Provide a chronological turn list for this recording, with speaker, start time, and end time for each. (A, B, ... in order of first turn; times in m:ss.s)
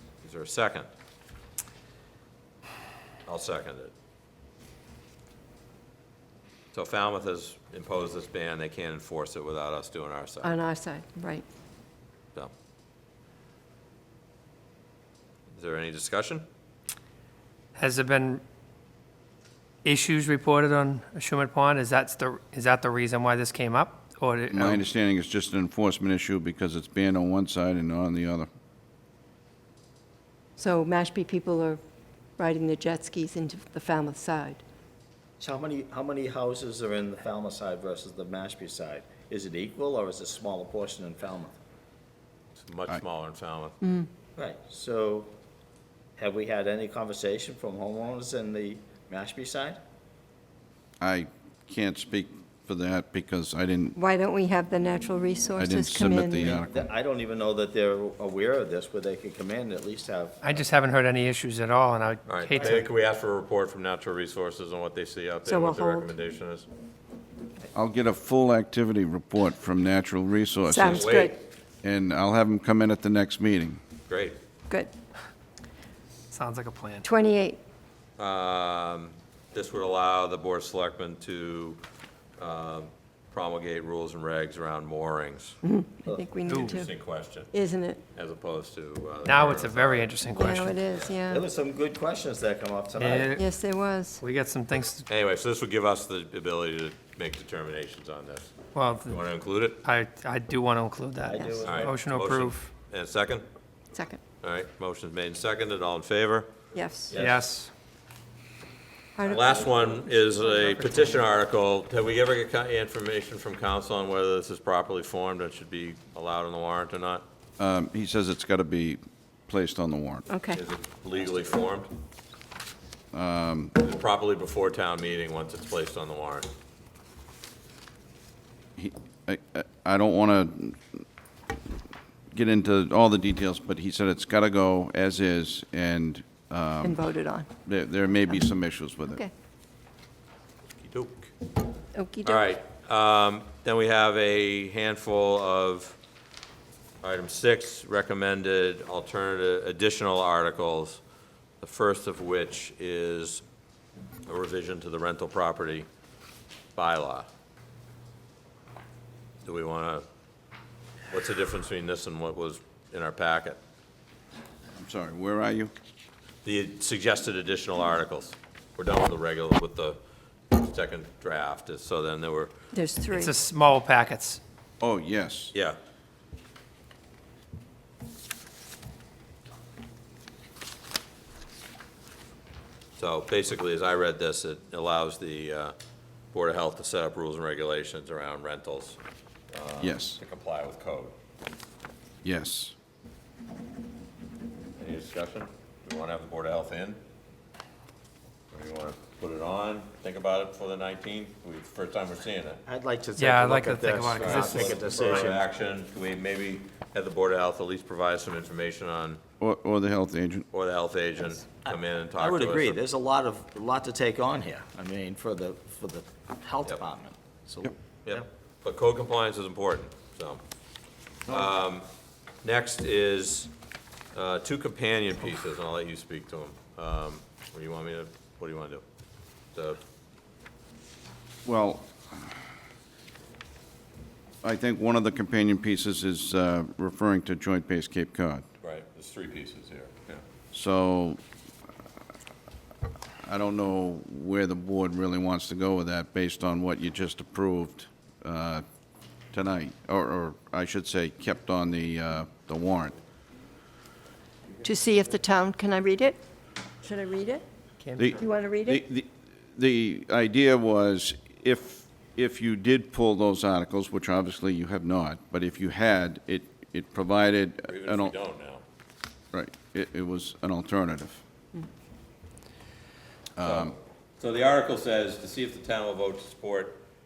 0:00.2-0:00.9 A
0:03.2-0:03.9 A
0:06.7-0:10.6 A
0:10.4-0:11.4 B
0:15.5-0:16.4 A
0:17.8-0:18.4 C
0:19.8-0:24.8 C
0:24.5-0:28.5 D
0:30.6-0:31.8 B
0:32.4-0:34.6 B
0:35.4-0:41.6 E
0:42.6-0:43.8 A
0:43.8-0:44.1 B
0:44.4-0:45.3 E
0:46.2-0:49.8 E
0:51.0-0:54.0 D
0:54.0-0:56.5 B
0:55.6-0:56.7 D
0:56.4-1:00.4 E
1:00.4-1:02.8 C
1:02.3-1:06.7 A
1:05.4-1:06.1 B
1:07.7-1:11.2 D
1:10.7-1:11.3 B
1:10.8-1:11.4 A
1:11.8-1:13.8 D
1:14.1-1:14.4 A
1:16.3-1:17.0 C
1:17.0-1:17.6 B
1:18.2-1:21.8 A
1:22.4-1:25.6 A
1:25.6-1:26.9 B
1:26.5-1:27.5 A
1:26.5-1:26.8 C
1:27.5-1:28.0 B
1:28.1-1:30.1 A
1:29.2-1:30.8 C
1:30.3-1:31.4 B
1:31.1-1:33.4 E
1:33.0-1:33.4 C
1:33.4-1:34.2 B
1:34.2-1:35.1 C
1:35.1-1:39.8 A
1:38.8-1:39.2 C
1:39.8-1:42.7 C
1:41.2-1:41.9 E
1:41.6-1:43.5 A
1:43.9-1:44.2 B
1:44.4-1:46.5 A
1:46.7-1:47.2 B
1:47.1-1:47.4 E
1:47.2-1:47.7 C
1:49.2-1:50.5 B
1:49.2-1:57.2 A
1:50.6-1:51.2 C
1:57.6-2:00.2 D
2:00.3-2:00.6 B
2:00.5-2:01.9 A
2:03.1-2:03.8 D
2:03.8-2:06.5 A
2:08.8-2:11.0 D
2:12.3-2:17.0 D
2:16.9-2:17.4 B
2:17.6-2:19.2 D
2:20.8-2:21.3 A
2:21.9-2:22.5 B
2:22.2-2:26.0 A
2:27.0-2:31.0 A
2:31.6-2:33.4 A
2:34.2-2:35.9 A
2:36.8-2:37.3 A
2:39.4-2:40.0 A
2:41.1-2:43.6 A
2:44.8-2:45.7 D
2:46.4-2:50.0 A
2:50.5-2:52.5 A
2:52.7-2:53.3 B
2:53.1-2:54.4 C
2:54.8-2:55.5 D
3:03.0-3:05.8 A
3:06.3-3:09.0 A
3:09.5-3:11.1 A
3:09.8-3:10.2 D
3:12.2-3:12.8 D
3:14.8-3:17.0 A
3:18.5-3:22.6 A
3:22.7-3:25.4 E
3:23.2-3:25.3 C
3:24.1-3:29.2 A
3:29.4-3:30.5 D
3:30.5-3:32.8 A
3:31.6-3:38.2 E
3:38.0-3:40.4 A
3:41.3-3:41.9 A
3:42.4-3:43.5 A
3:44.1-3:48.8 A
3:51.4-3:52.3 D
3:54.4-3:58.4 D
3:58.6-4:00.2 A
4:00.5-4:01.2 D
4:03.2-4:08.6 D
4:09.3-4:13.0 D
4:14.6-4:16.2 B
4:16.8-4:17.4 B
4:17.8-4:18.1 C
4:18.0-4:28.2 D
4:18.2-4:18.7 B
4:27.7-4:28.6 A
4:29.3-4:31.2 D
4:33.4-4:33.8 D
4:33.4-4:36.8 A